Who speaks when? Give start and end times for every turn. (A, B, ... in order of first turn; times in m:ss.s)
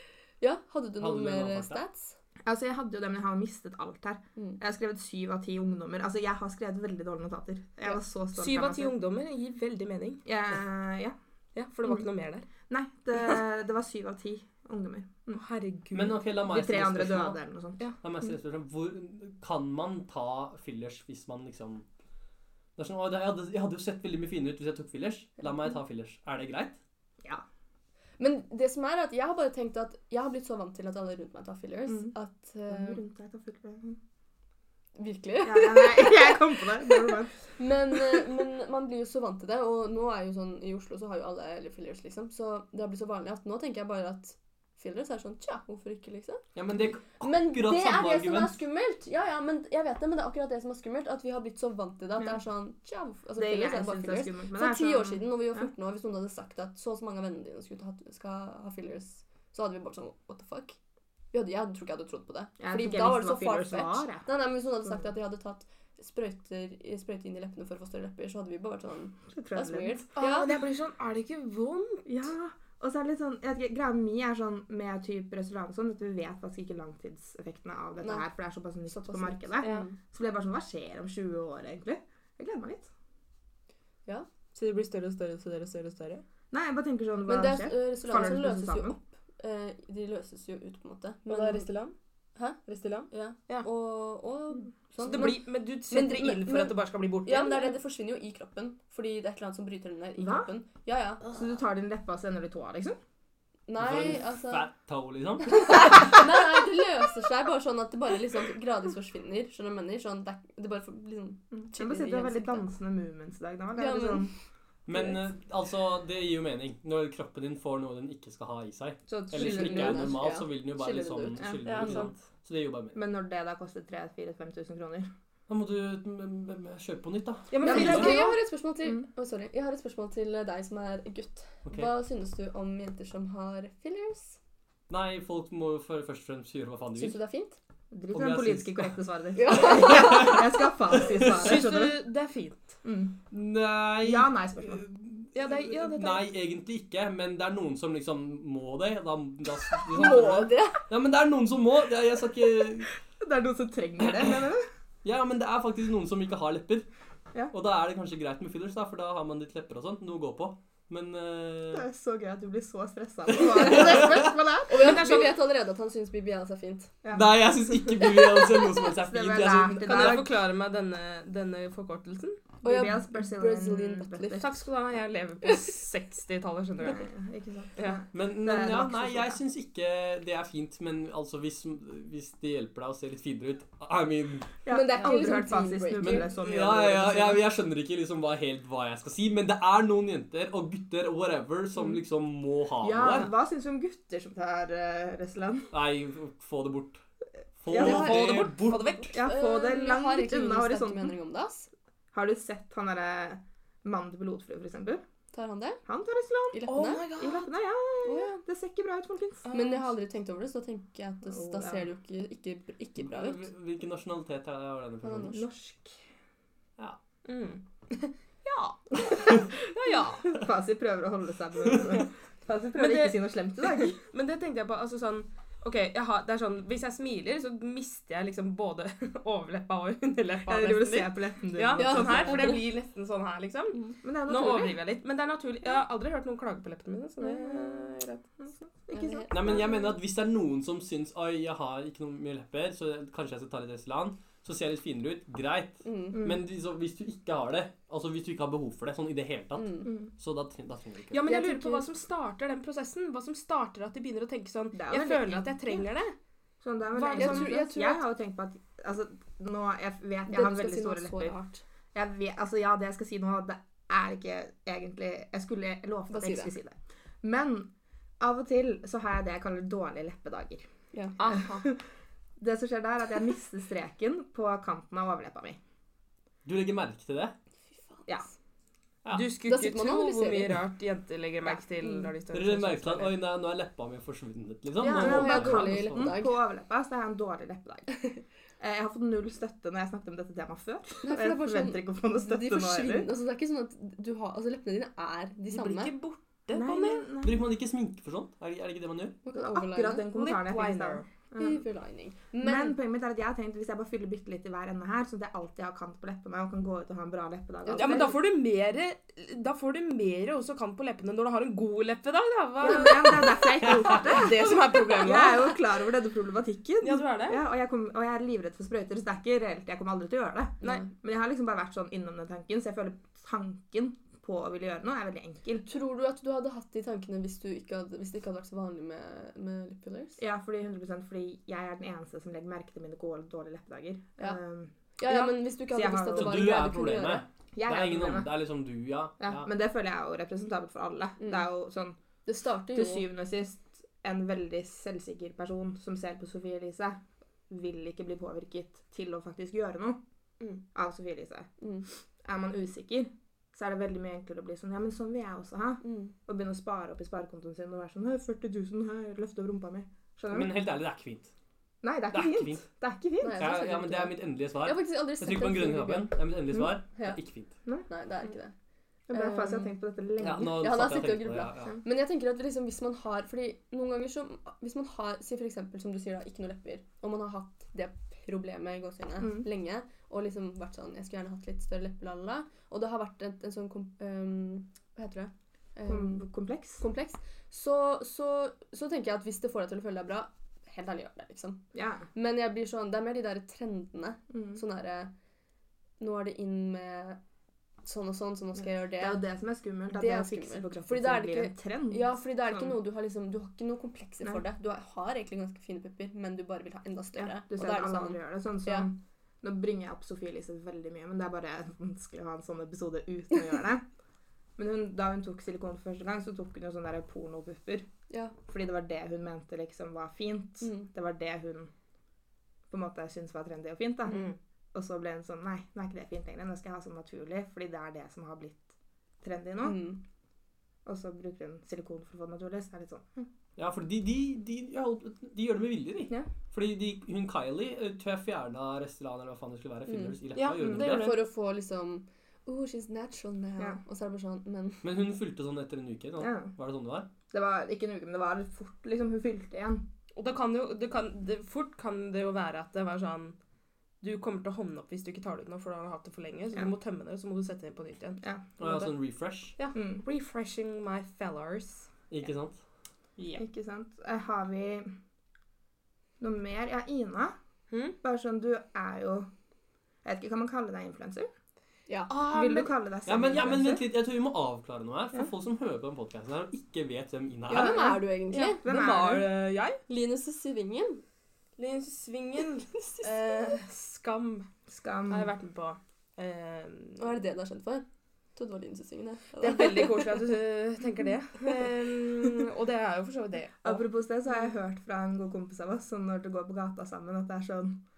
0:00.4-0:02.2 A
0:01.0-0:01.8 B
0:02.4-0:08.9 C
0:08.3-0:10.2 D
0:10.2-0:11.2 C
0:11.5-0:12.5 D
0:12.6-0:15.4 C
0:15.3-0:16.2 D
0:15.9-0:17.4 B
0:16.5-0:17.8 C
0:18.0-0:21.8 B
0:22.8-0:26.8 B
0:28.2-0:33.0 A
0:31.9-0:32.1 C
0:32.7-0:34.0 C
0:35.0-0:46.4 A
0:35.4-0:37.4 C
0:46.5-0:48.6 B
0:47.2-1:00.8 A
0:53.4-0:55.7 C
1:01.3-1:10.5 A
1:02.6-1:04.2 C
1:09.3-1:10.2 C
1:10.2-1:12.1 D
1:12.0-1:22.9 C
1:18.0-1:18.2 A
1:18.9-1:19.9 A
1:19.6-1:19.9 D
1:24.5-1:26.2 D
1:26.5-1:29.0 C
1:27.3-1:31.7 A
1:31.3-1:31.9 D
1:32.4-1:41.3 A
1:32.6-1:33.7 D
1:35.0-1:37.8 D
1:40.2-1:40.5 C
1:41.3-1:43.0 C
1:43.7-1:44.7 A
1:43.8-1:46.1 B
1:45.4-1:52.6 A
1:51.5-1:54.3 C
1:53.8-1:54.3 A
1:54.8-2:03.0 B
1:59.1-2:00.2 C
1:59.3-2:02.1 A
2:01.6-2:02.1 D
2:02.9-2:05.1 C
2:05.5-2:08.1 B
2:07.5-2:08.4 D
2:07.6-2:08.3 C
2:07.6-2:14.4 A
2:11.6-2:11.9 B
2:14.9-2:17.2 B
2:17.0-2:17.6 A
2:17.9-2:22.0 C
2:18.1-2:18.9 B
2:19.4-2:20.5 A
2:19.7-2:20.4 B
2:21.0-2:21.3 B
2:21.3-2:22.8 D
2:22.8-2:23.2 C
2:23.3-2:32.9 B
2:24.0-2:24.8 C
2:25.3-2:26.2 D
2:29.8-2:30.8 A
2:33.2-2:34.7 C
2:34.0-2:34.4 B
2:35.0-2:36.9 B
2:37.5-2:41.8 B
2:41.7-2:45.1 C
2:43.4-2:44.2 B
2:44.7-2:46.9 A
2:44.7-2:45.3 D
2:47.0-2:47.4 C
2:47.1-2:50.2 B
2:49.0-2:50.3 C
2:49.8-2:52.4 D
2:52.6-2:54.5 C
2:52.6-2:54.4 A
2:54.4-2:57.0 D
2:56.8-2:59.4 C
2:58.1-3:04.5 B
3:04.6-3:07.4 C
3:04.7-3:06.3 A
3:06.0-3:13.3 B
3:12.8-3:15.7 C
3:15.7-3:17.0 B
3:17.6-3:19.1 B
3:17.7-3:18.5 C
3:17.7-3:19.2 D
3:19.1-3:21.1 C
3:19.2-3:21.7 A
3:22.1-3:25.0 C
3:25.3-3:25.8 A
3:25.8-3:29.4 C
3:26.5-3:27.1 A
3:26.6-3:27.5 D
3:28.0-3:28.4 A
3:29.4-3:29.9 D
3:29.5-3:33.4 A
3:31.3-3:31.9 C
3:33.0-3:35.4 B
3:35.0-3:35.4 A
3:35.3-3:36.0 C
3:37.2-3:37.6 D
3:38.4-3:40.4 D
3:40.2-3:44.0 C
3:42.7-3:43.2 D
3:43.7-3:58.3 D
3:50.5-3:52.6 C
3:51.8-3:52.6 A
3:54.0-3:54.8 C
3:57.2-3:59.6 C
3:58.9-3:59.8 A
3:59.3-4:11.2 B
4:05.8-4:06.2 A
4:09.6-4:09.9 A
4:11.1-4:16.1 D
4:11.2-4:11.9 A
4:14.7-4:15.8 C
4:16.6-4:21.4 C
4:17.0-4:17.6 D
4:17.1-4:18.0 A
4:20.3-4:21.6 A
4:21.9-4:30.7 C
4:26.1-4:26.5 A
4:30.9-4:31.2 A
4:31.2-4:31.7 D
4:31.3-4:31.8 C
4:32.4-4:35.6 C
4:36.4-4:37.3 B
4:39.1-4:43.1 D
4:39.4-4:40.6 A
4:41.4-4:42.1 C
4:42.3-4:46.1 B
4:44.8-4:47.9 C
4:44.8-4:46.4 A
4:48.6-4:53.1 C
4:51.0-4:55.9 A
4:55.5-4:57.0 D
4:56.5-4:57.4 C
4:57.2-4:59.2 B
4:59.2-5:00.1 A
4:59.3-5:01.6 C
5:00.1-5:01.1 D
5:01.4-5:02.8 A
5:02.4-5:08.2 C
5:07.6-5:08.1 A
5:07.7-5:15.5 D
5:12.6-5:25.7 C
5:16.8-5:17.4 D
5:25.6-5:30.2 A
5:30.2-5:36.5 C
5:35.0-5:37.2 A
5:36.1-5:39.5 B
5:37.5-5:38.4 C
5:39.2-5:42.0 C
5:42.2-5:43.1 A
5:42.7-5:50.0 C
5:50.7-5:51.5 C
5:52.2-6:00.5 C
5:55.8-5:56.1 A
6:00.3-6:01.3 B
6:01.8-6:03.5 C
6:02.1-6:02.6 B
6:03.2-6:06.2 A
6:03.3-6:07.5 B
6:07.9-6:08.5 A
6:09.1-6:10.6 C
6:09.1-6:09.7 A
6:10.2-6:11.7 B
6:10.4-6:26.2 A
6:19.2-6:19.4 C
6:25.9-6:26.8 C
6:26.8-6:35.1 A
6:31.7-6:32.0 C
6:34.3-6:34.6 C
6:36.0-6:37.2 A
6:37.8-6:39.2 A
6:39.0-6:42.8 C
6:39.9-6:48.9 A
6:47.2-6:53.8 C
6:54.6-6:57.9 C
6:58.1-6:58.3 A
6:58.4-7:01.7 C
7:00.6-7:00.9 A
7:02.7-7:09.9 C
7:04.1-7:04.3 D
7:09.6-7:10.0 A
7:10.8-7:13.3 C
7:13.6-7:21.1 B
7:19.9-7:20.2 A
7:20.3-7:21.2 D
7:20.8-7:24.9 A
7:24.8-7:27.1 B
7:26.2-7:26.5 C
7:27.3-7:29.8 C
7:30.1-7:33.4 D
7:34.0-7:38.9 D
7:38.6-7:39.6 B
7:39.6-7:41.9 D
7:39.7-7:40.0 C
7:42.1-7:42.6 B
7:43.2-7:43.4 D
7:43.4-7:44.9 C
7:46.2-7:47.4 C
7:47.7-7:48.0 D
7:48.0-7:49.3 C
7:50.0-7:51.3 C
7:52.1-7:52.7 D
7:52.2-7:53.8 C
7:53.0-7:57.9 B
7:57.5-7:58.6 A
7:57.5-7:59.3 C
7:58.3-7:59.8 D
7:59.9-8:01.0 A
8:01.6-8:04.5 D
8:02.8-8:03.6 A
8:04.7-8:05.3 C
8:05.1-8:07.1 D
8:07.0-8:10.2 A
8:09.4-8:13.8 D
8:13.6-8:17.8 C